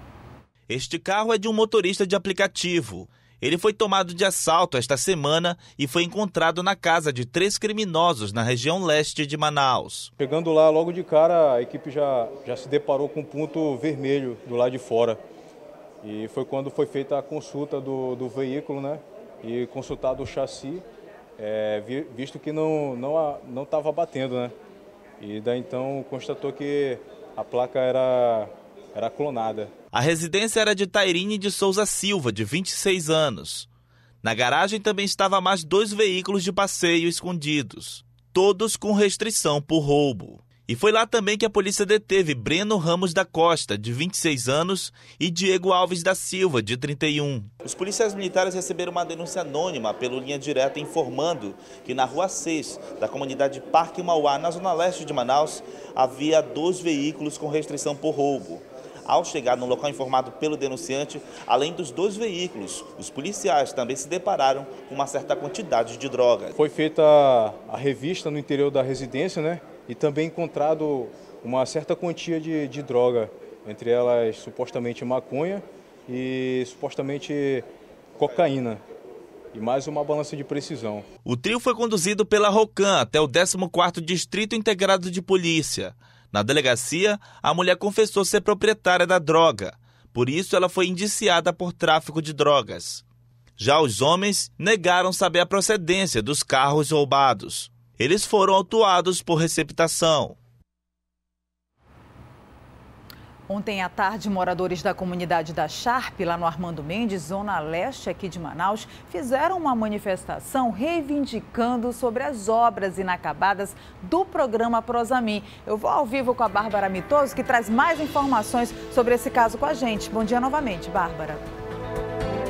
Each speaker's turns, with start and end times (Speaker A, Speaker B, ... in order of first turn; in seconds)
Speaker A: 0.7-10.1, 29.9-33.7, 34.2-66.5, 81.2-93.0, 93.6-100.3
Speaker B: 10.2-15.2, 16.0-20.8, 21.4-24.5, 25.2-29.7, 66.6-77.7, 78.2-78.8, 79.5-81.0
Speaker C: 103.5-121.4